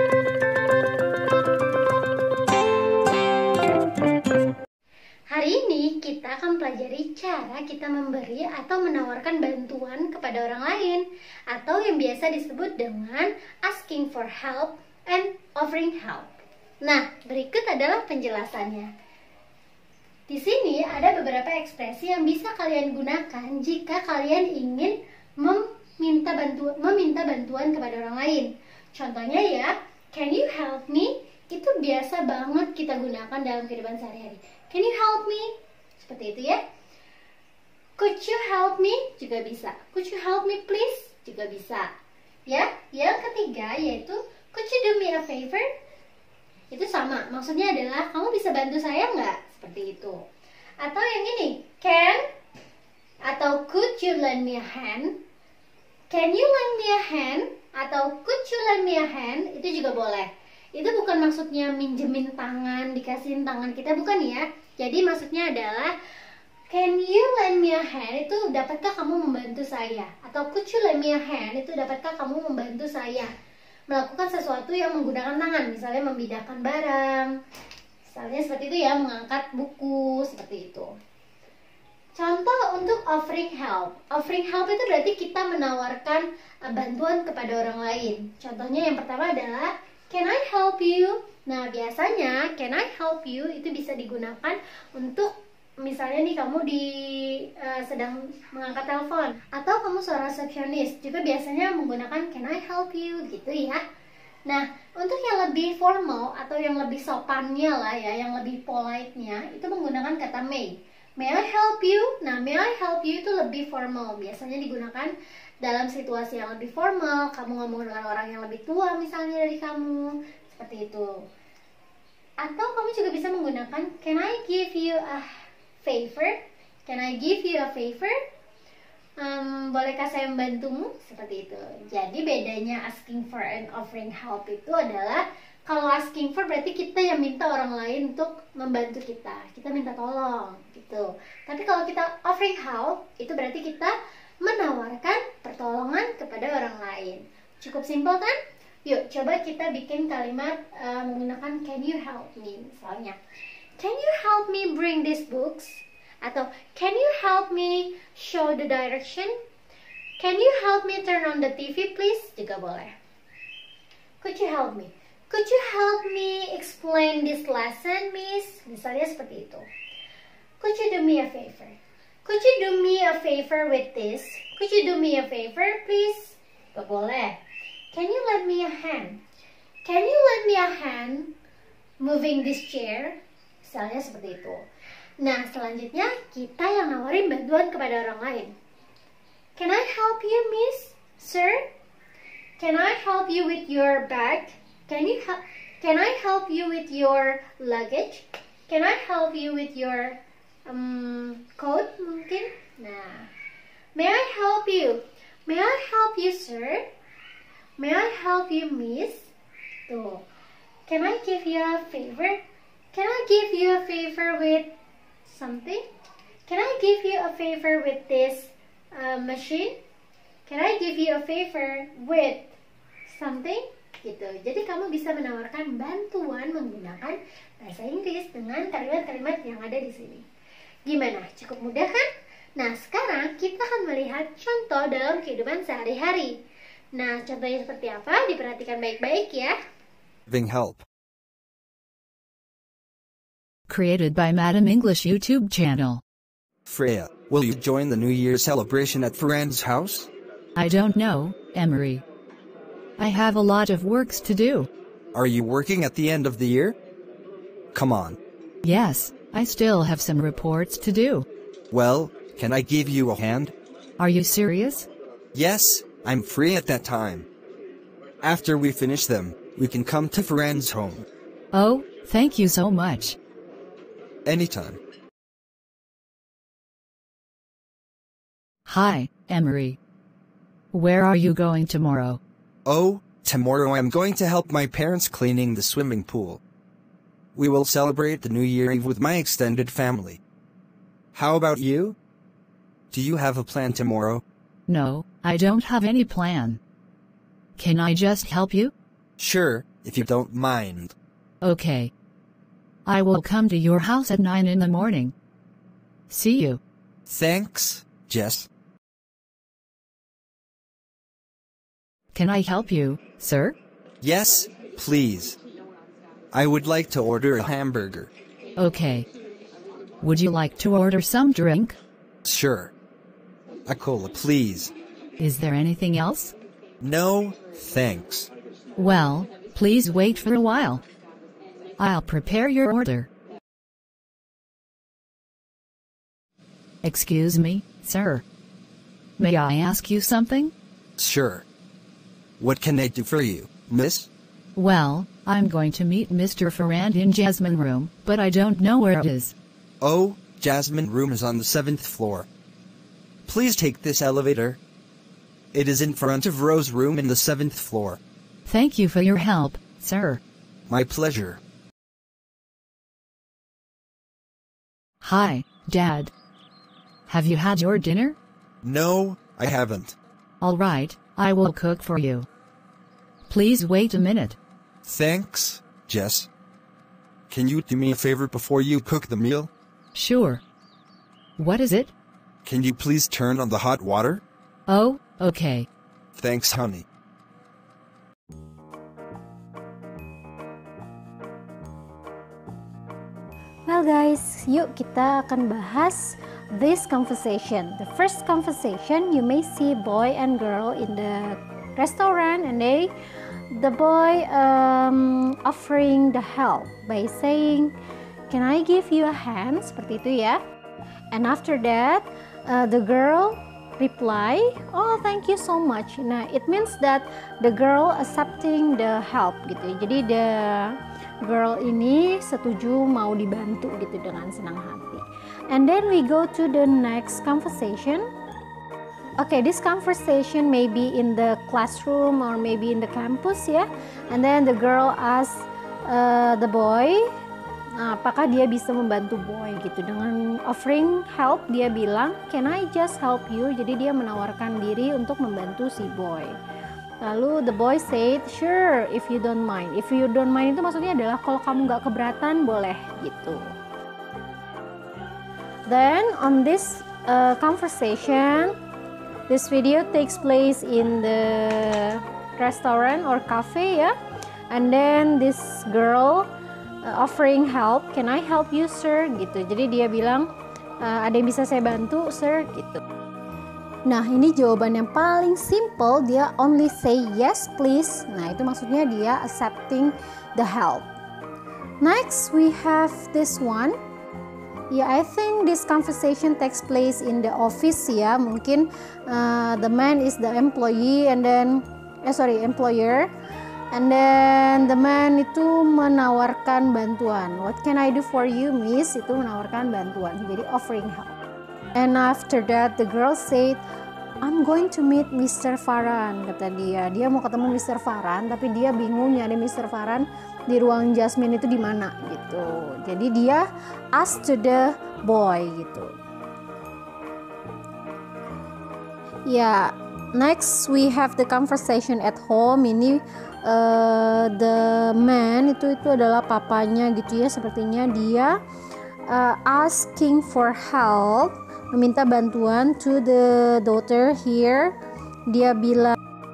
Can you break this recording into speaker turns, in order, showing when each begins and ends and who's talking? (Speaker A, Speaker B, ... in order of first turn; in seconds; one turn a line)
Speaker A: 5.3-16.3
Speaker A: 16.8-18.9
Speaker A: 20.3-36.6
Speaker A: 38.0-41.9
Speaker A: 42.5-45.6
Speaker A: 46.7-50.2
Speaker A: 50.8-52.2
Speaker A: 53.2-55.1
Speaker A: 56.1-65.9
Speaker A: 66.7-73.3
Speaker A: 73.9-77.3
Speaker A: 78.0-80.9
Speaker A: 82.1-103.8
Speaker A: 104.5-121.1
Speaker A: 122.4-128.1
Speaker A: 129.2-153.2
Speaker A: 153.8-159.3
Speaker A: 160.2-162.9
Speaker A: 164.2-169.7
Speaker A: 170.6-177.4
Speaker A: 177.9-179.2
Speaker A: 179.8-181.3
Speaker A: 182.0-184.6
Speaker A: 185.2-188.5
Speaker A: 189.6-191.6
Speaker A: 192.6-203.3
Speaker A: 203.9-206.8
Speaker A: 207.8-209.3
Speaker A: 209.9-210.2
Speaker A: 210.9-212.4
Speaker A: 212.9-214.7
Speaker A: 215.2-215.8
Speaker A: 216.5-219.7
Speaker A: 220.4-222.5
Speaker A: 223.1-230.2
Speaker A: 230.9-236.3
Speaker A: 236.9-239.5
Speaker B: 240.3-240.8
Speaker C: 243.7-246.0
Speaker B: 246.7-250.1
Speaker C: 250.5-252.0
Speaker C: 253.0-254.7
Speaker B: 255.1-256.8
Speaker B: 257.7-258.2
Speaker C: 258.6-261.2
Speaker B: 261.7-263.5
Speaker C: 264.0-264.9
Speaker B: 265.3-267.3
Speaker B: 268.2-271.1
Speaker C: 271.5-273.2
Speaker B: 274.2-274.8
Speaker C: 278.6-279.8
Speaker C: 280.7-282.2
Speaker B: 282.6-286.4
Speaker B: 287.3-290.2
Speaker B: 291.1-292.0
Speaker B: 292.9-294.2
Speaker C: 294.7-296.6
Speaker C: 297.6-298.7
Speaker B: 299.2-300.9
Speaker C: 301.4-301.9
Speaker C: 302.8-305.1
Speaker C: 306.1-306.6
Speaker B: 307.1-308.5
Speaker C: 312.1-313.5
Speaker B: 314.0-315.4
Speaker B: 316.3-318.1
Speaker C: 318.6-319.1
Speaker C: 320.0-321.8
Speaker B: 322.2-322.7
Speaker B: 323.7-324.7
Speaker C: 325.2-326.3
Speaker B: 326.8-328.3
Speaker C: 328.8-330.8
Speaker C: 331.8-333.1
Speaker C: 336.8-338.2
Speaker C: 339.2-340.5
Speaker B: 341.0-341.4
Speaker B: 342.4-344.1
Speaker C: 344.6-349.3
Speaker B: 349.8-352.3
Speaker B: 353.2-354.6
Speaker B: 355.5-358.0
Speaker C: 358.4-360.2
Speaker B: 360.7-361.4
Speaker C: 365.0-366.1
Speaker C: 367.1-368.1
Speaker B: 368.6-369.9
Speaker C: 370.4-372.3
Speaker C: 373.3-374.4
Speaker B: 374.8-376.3
Speaker B: 377.3-379.5
Speaker C: 379.9-380.4
Speaker C: 381.4-381.9
Speaker B: 382.4-384.2
Speaker C: 384.7-385.7
Speaker B: 386.1-386.9
Speaker A: 393.7-402.9
Speaker A: 403.5-407.7
Speaker A: 408.3-410.4
Speaker A: 411.1-428.0
Speaker A: 429.2-437.0
Speaker A: 437.8-446.4
Speaker A: 447.0-453.4
Speaker A: 455.7-458.6
Speaker A: 459.3-463.9
Speaker A: 464.5-466.3
Speaker A: 466.8-470.3
Speaker A: 470.8-472.8
Speaker A: 473.9-480.9
Speaker A: 481.8-483.7
Speaker A: 484.7-493.1
Speaker A: 493.7-501.1
Speaker A: 501.7-503.6
Speaker A: 504.2-515.9
Speaker A: 519.3-528.4
Speaker A: 529.1-534.8
Speaker A: 535.3-536.0